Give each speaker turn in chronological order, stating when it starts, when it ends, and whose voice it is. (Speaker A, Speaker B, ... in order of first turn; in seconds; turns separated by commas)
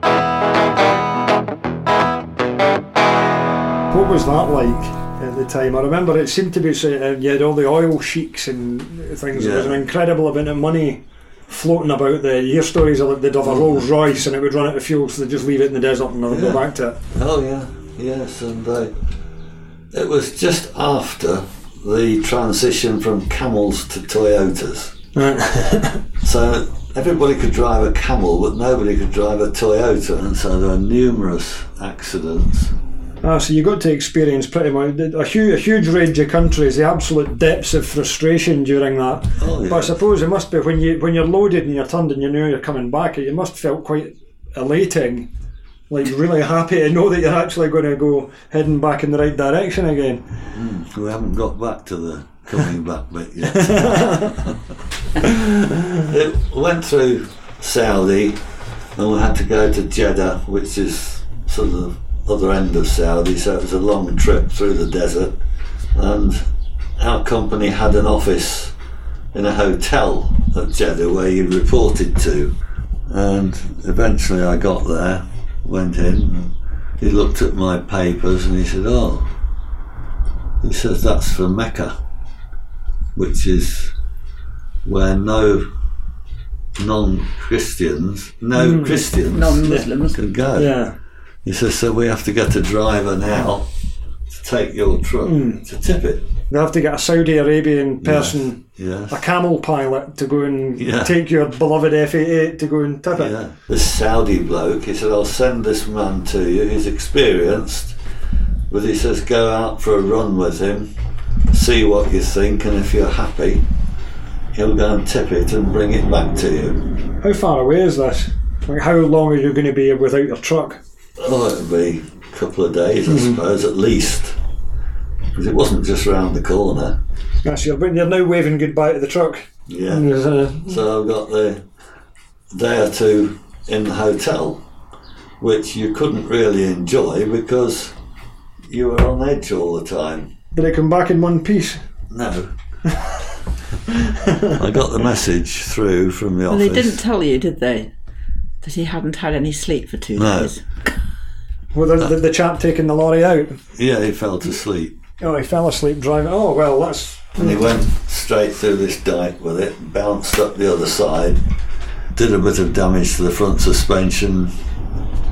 Speaker A: 3.9-17.0, Speaker B: 9.3-9.8, Speaker B: 13.4-13.8, Speaker B: 16.3-18.9, Speaker B: 19.9-24.9, Speaker A: 25.1-26.0, Speaker B: 26.2-32.7, Speaker A: 33.2-45.3, Speaker B: 39.4-39.9, Speaker A: 45.9-50.2, Speaker B: 50.5-54.6, Speaker A: 53.5-54.3, Speaker B: 55.2-58.4, Speaker B: 59.0-65.3, Speaker B: 65.9-68.7, Speaker B: 69.3-72.5, Speaker B: 73.1-79.3, Speaker B: 80.6-82.0, Speaker B: 83.1-83.9, Speaker B: 84.8-85.7, Speaker B: 86.8-90.8, Speaker A: 88.5-89.0, Speaker C: 89.3-90.2, Speaker A: 90.5-90.9, Speaker B: 91.4-93.7, Speaker B: 94.3-96.2, Speaker A: 95.2-95.6, Speaker A: 96.5-103.3, Speaker B: 98.0-99.2, Speaker B: 100.8-101.1, Speaker B: 103.1-108.0, Speaker B: 108.7-110.9, Speaker B: 111.5-113.7, Speaker B: 114.5-116.8, Speaker A: 117.2-120.8, Speaker B: 121.2-124.4, Speaker A: 123.0-123.4, Speaker B: 125.3-127.0, Speaker A: 127.4-130.8, Speaker B: 129.7-131.7, Speaker B: 132.5-134.6, Speaker B: 135.4-137.9, Speaker B: 138.7-140.3, Speaker A: 140.5-141.8, Speaker B: 142.1-142.5, Speaker A: 144.0-144.6, Speaker B: 144.4-147.0, Speaker C: 146.5-147.9, Speaker C: 148.6-150.6, Speaker B: 150.1-150.5, Speaker A: 151.7-153.6, Speaker B: 153.8-154.9, Speaker A: 155.2-157.7, Speaker B: 157.4-161.4, Speaker B: 162.1-164.5